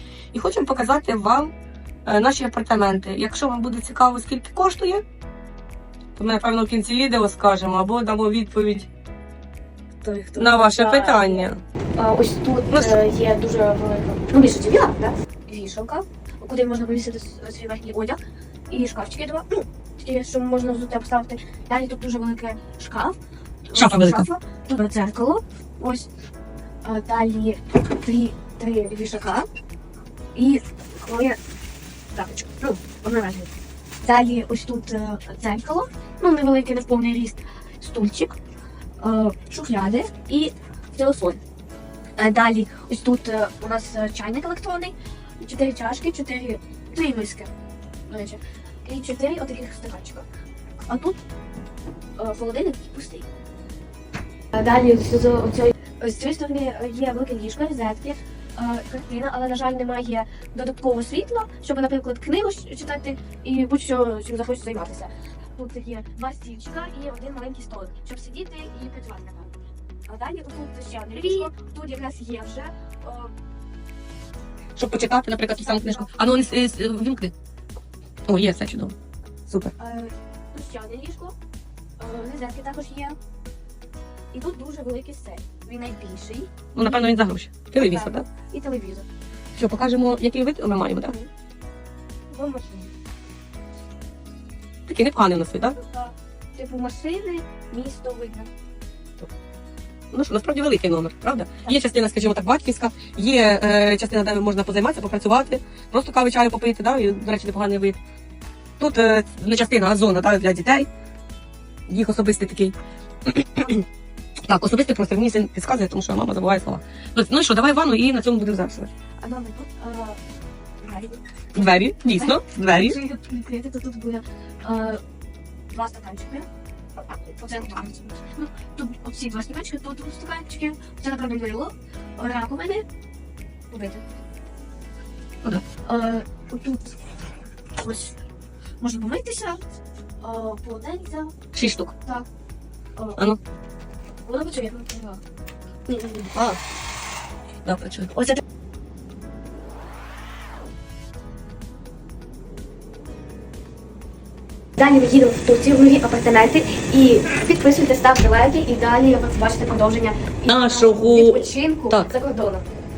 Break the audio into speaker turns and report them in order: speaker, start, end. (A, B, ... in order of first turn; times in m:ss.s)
0:00.3-0:01.5 A
0:02.0-0:05.0 A
0:06.2-0:08.9 A
0:10.0-0:26.1 B
0:10.4-0:11.6 A
0:23.7-0:24.3 A
0:26.8-0:29.5 B
0:30.3-0:31.4 B
0:32.1-0:38.4 B
0:39.0-0:41.4 B
0:42.2-0:47.5 B
0:48.1-0:50.2 B
0:50.8-0:51.2 B
0:52.2-0:53.3 B
0:54.5-1:09.5 B
1:10.1-1:13.3 B
1:14.8-1:17.3 A
1:15.6-1:16.1 B
1:18.3-1:18.9 A
1:19.5-1:19.7 A
1:19.8-1:21.4 B
1:22.0-1:23.2 B
1:24.3-1:27.0 B
1:26.7-1:28.2 A
1:27.8-1:29.1 B
1:29.5-1:31.1 A
1:31.0-1:31.3 B
1:32.3-1:32.9 B
1:34.8-1:35.8 A
1:35.8-1:38.5 B
1:40.1-1:48.0 A
1:48.8-1:50.9 A
1:51.9-1:52.7 A
1:53.3-1:53.8 A
1:54.5-1:58.9 A
1:59.2-2:00.2 B
2:00.8-2:01.2 B
2:01.5-2:03.0 A
2:02.1-2:05.0 B
2:05.7-2:06.5 B
2:07.3-2:12.8 B
2:13.7-2:14.1 B
2:15.8-2:17.0 B
2:17.8-2:18.2 B
2:18.8-2:19.6 B
2:20.2-2:21.3 B
2:21.5-2:21.9 A
2:24.2-2:25.2 B
2:25.9-2:26.3 B
2:27.6-2:28.1 A
2:34.8-2:42.7 B
2:40.5-2:42.1 A